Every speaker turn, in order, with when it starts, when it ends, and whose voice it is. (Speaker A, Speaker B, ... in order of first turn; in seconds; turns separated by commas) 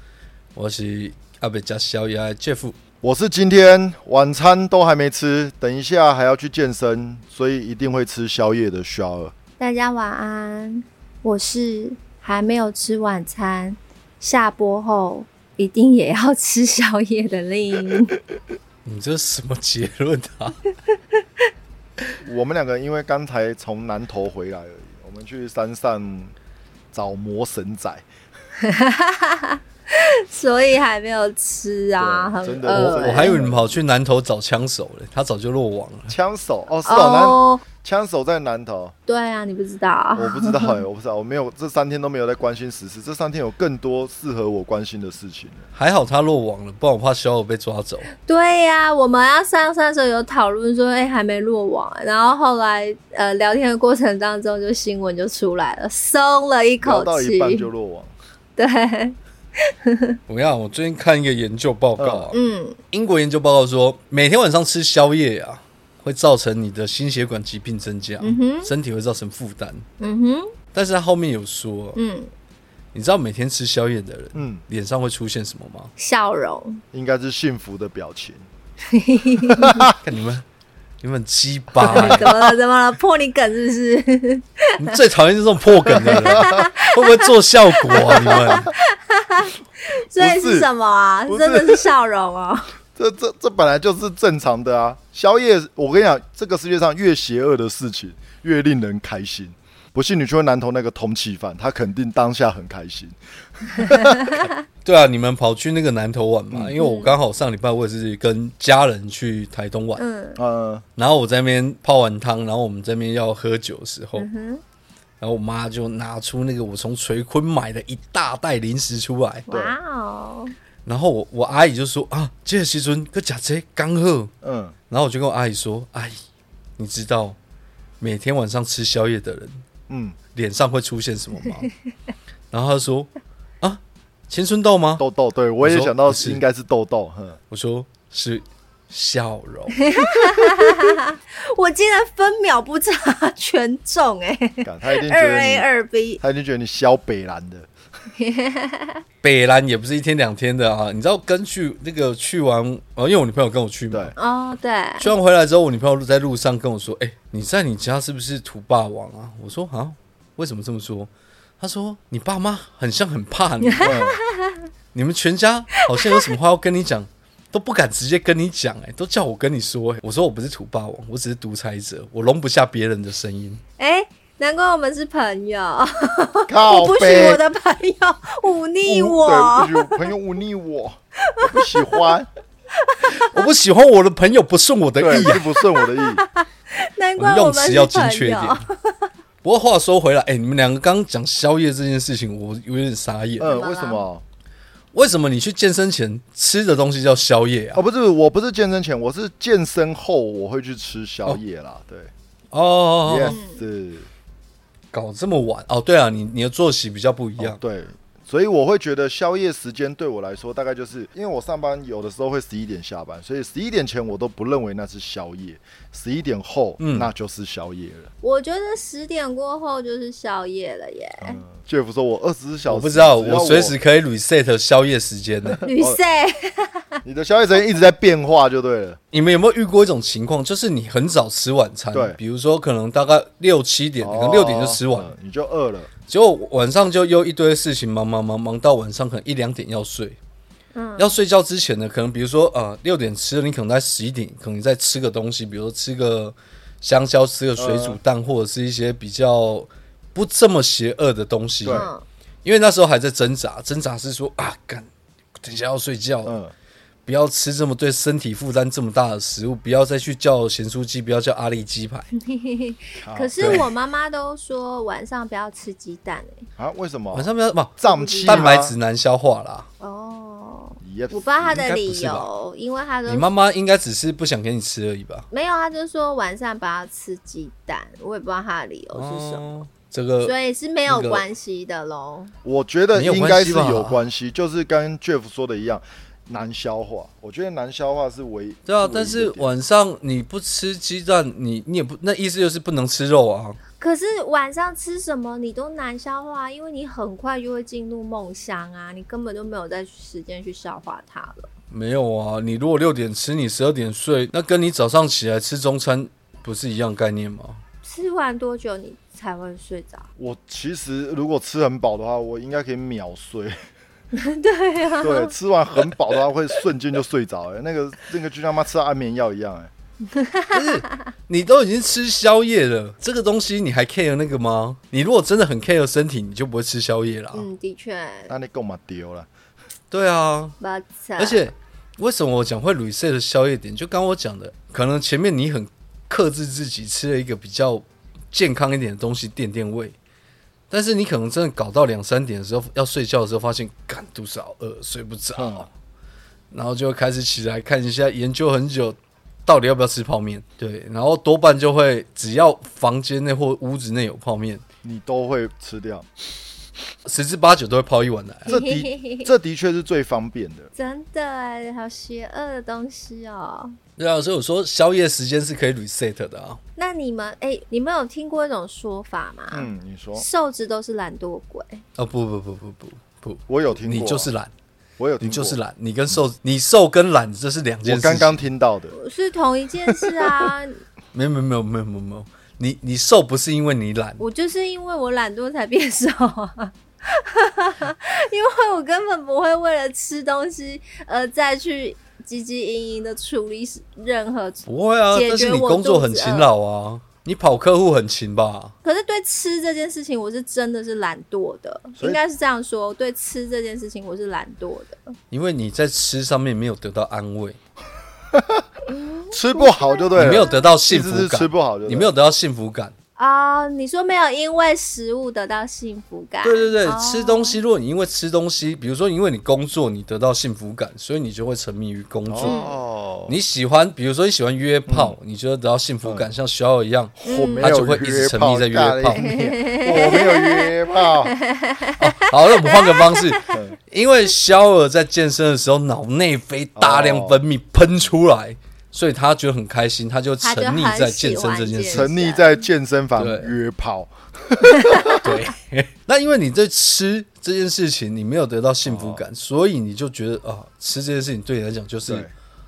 Speaker A: 0.6-2.7, Speaker B: 3.0-9.3, Speaker C: 9.6-18.2, Speaker A: 18.8-20.6, Speaker B: 22.2-26.3, Speaker B: 26.9-28.0, Speaker C: 28.6-33.4, Speaker B: 32.0-33.8, Speaker A: 32.7-36.1, Speaker B: 36.1-38.9, Speaker C: 36.9-37.6, Speaker C: 39.1-40.8, Speaker B: 40.1-45.6, Speaker A: 45.8-48.1, Speaker C: 48.2-57.7, Speaker B: 56.8-58.1, Speaker C: 58.6-59.1, Speaker C: 59.7-60.2, Speaker A: 60.3-62.4, Speaker B: 62.0-62.3, Speaker C: 62.3-62.8, Speaker A: 62.9-69.8, Speaker C: 68.2-68.7, Speaker C: 70.0-70.5, Speaker A: 70.7-72.0, Speaker C: 72.0-72.3, Speaker A: 72.9-75.9, Speaker B: 74.3-74.6, Speaker C: 76.0-76.8, Speaker B: 76.9-78.5, Speaker C: 78.9-79.9, Speaker B: 79.6-79.9, Speaker A: 80.0-80.4, Speaker A: 81.0-82.3, Speaker C: 81.8-84.9, Speaker B: 81.9-82.3, Speaker A: 84.8-88.7, Speaker B: 85.9-86.6, Speaker C: 86.1-92.7, Speaker B: 88.0-88.7, Speaker B: 90.2-90.7, Speaker B: 91.3-91.9, Speaker B: 93.0-104.4, Speaker C: 103.9-104.5, Speaker A: 104.8-110.0, Speaker B: 106.5-106.8, Speaker C: 106.8-107.2, Speaker C: 110.0-110.4, Speaker B: 110.4-110.8, Speaker A: 111.0-114.3, Speaker C: 114.2-114.6, Speaker A: 115.2-119.5, Speaker C: 119.5-120.5, Speaker B: 119.5-119.8, Speaker A: 120.8-124.3, Speaker B: 124.4-124.8, Speaker A: 124.9-126.2, Speaker A: 126.8-127.4, Speaker A: 128.0-129.6, Speaker B: 129.9-130.2, Speaker A: 130.3-131.7, Speaker A: 132.5-133.1, Speaker A: 133.6-135.0, Speaker B: 135.0-137.4, Speaker A: 135.6-136.4, Speaker A: 137.5-139.8, Speaker C: 139.8-146.2, Speaker B: 144.6-145.7, Speaker B: 146.2-147.7, Speaker C: 148.2-149.0, Speaker A: 149.2-154.2, Speaker C: 154.2-155.1, Speaker A: 155.0-161.1, Speaker A: 161.6-164.0, Speaker C: 163.7-164.6, Speaker B: 163.8-164.2, Speaker A: 164.9-173.6, Speaker C: 165.8-166.2, Speaker C: 173.8-180.1, Speaker B: 176.5-177.4, Speaker B: 178.8-182.3, Speaker C: 181.2-182.1, Speaker C: 182.8-183.3, Speaker A: 183.2-185.4, Speaker B: 185.0-186.2, Speaker C: 185.2-189.1, Speaker A: 187.2-188.6, Speaker A: 189.4-193.5, Speaker B: 193.4-194.2, Speaker C: 193.4-194.0, Speaker A: 194.9-197.8, Speaker B: 197.7-202.1, Speaker A: 202.5-203.4, Speaker B: 203.0-204.1, Speaker C: 203.3-203.6, Speaker A: 204.9-207.6, Speaker B: 207.4-218.1, Speaker A: 216.8-217.1, Speaker C: 218.2-221.4, Speaker B: 221.2-223.8, Speaker A: 222.7-225.6, Speaker B: 225.5-226.0, Speaker C: 225.6-227.0, Speaker B: 227.0-229.0, Speaker A: 229.1-235.1, Speaker B: 234.0-235.9, Speaker A: 236.1-240.2, Speaker C: 240.7-241.1, Speaker A: 241.0-251.9, Speaker B: 247.6-248.0, Speaker B: 251.6-251.9, Speaker C: 251.7-252.0, Speaker A: 252.4-254.9, Speaker A: 255.4-256.4, Speaker B: 256.2-256.5, Speaker A: 257.1-262.1, Speaker C: 262.1-266.4, Speaker B: 263.0-263.7, Speaker A: 263.4-263.6, Speaker B: 266.6-268.8, Speaker A: 267.1-269.7, Speaker C: 267.8-268.5, Speaker C: 269.8-273.3, Speaker B: 270.8-271.6, Speaker A: 271.5-272.3, Speaker A: 273.1-275.3, Speaker C: 275.3-279.6, Speaker A: 278.9-280.4, Speaker C: 280.2-282.3, Speaker A: 280.9-281.2, Speaker B: 282.4-289.5, Speaker A: 282.9-284.0, Speaker A: 288.6-293.6, Speaker C: 293.8-301.5, Speaker A: 301.7-307.6, Speaker C: 307.8-310.0, Speaker B: 310.2-313.5, Speaker C: 314.1-315.3, Speaker B: 315.0-319.7, Speaker C: 320.1-320.8, Speaker A: 320.5-327.5, Speaker C: 327.3-328.3, Speaker B: 328.3-329.3, Speaker A: 329.9-330.6, Speaker C: 330.6-331.4, Speaker A: 331.2-339.9, Speaker A: 340.7-345.7, Speaker B: 345.4-345.7, Speaker A: 346.5-354.6, Speaker B: 354.8-356.1, Speaker A: 357.1-358.5, Speaker B: 358.4-360.7, Speaker C: 358.5-359.3, Speaker C: 360.7-363.8, Speaker A: 364.0-366.6, Speaker C: 366.8-371.8, Speaker B: 369.5-370.2, Speaker A: 372.0-374.5, Speaker B: 373.5-374.3, Speaker B: 375.0-375.6, Speaker A: 375.2-378.4, Speaker B: 377.8-378.9, Speaker C: 378.9-380.8, Speaker B: 379.9-380.5, Speaker A: 381.1-384.2, Speaker C: 384.2-396.5, Speaker A: 394.7-398.7, Speaker C: 398.8-405.0, Speaker A: 405.3-407.6, Speaker B: 408.3-408.6, Speaker C: 408.9-410.6, Speaker B: 409.3-412.1, Speaker A: 410.1-412.9, Speaker C: 413.2-417.6, Speaker A: 416.4-422.5, Speaker B: 422.3-423.4, Speaker C: 422.4-422.7, Speaker A: 423.3-429.3, Speaker B: 424.9-425.1, Speaker B: 427.2-431.3, Speaker C: 427.2-427.7, Speaker C: 429.1-433.4, Speaker A: 432.0-442.1, Speaker B: 433.5-433.8, Speaker B: 436.8-437.4, Speaker C: 440.4-442.6, Speaker B: 441.9-445.3, Speaker A: 443.2-443.5, Speaker C: 444.6-445.3, Speaker A: 445.2-452.3, Speaker B: 448.8-449.2, Speaker B: 452.1-452.3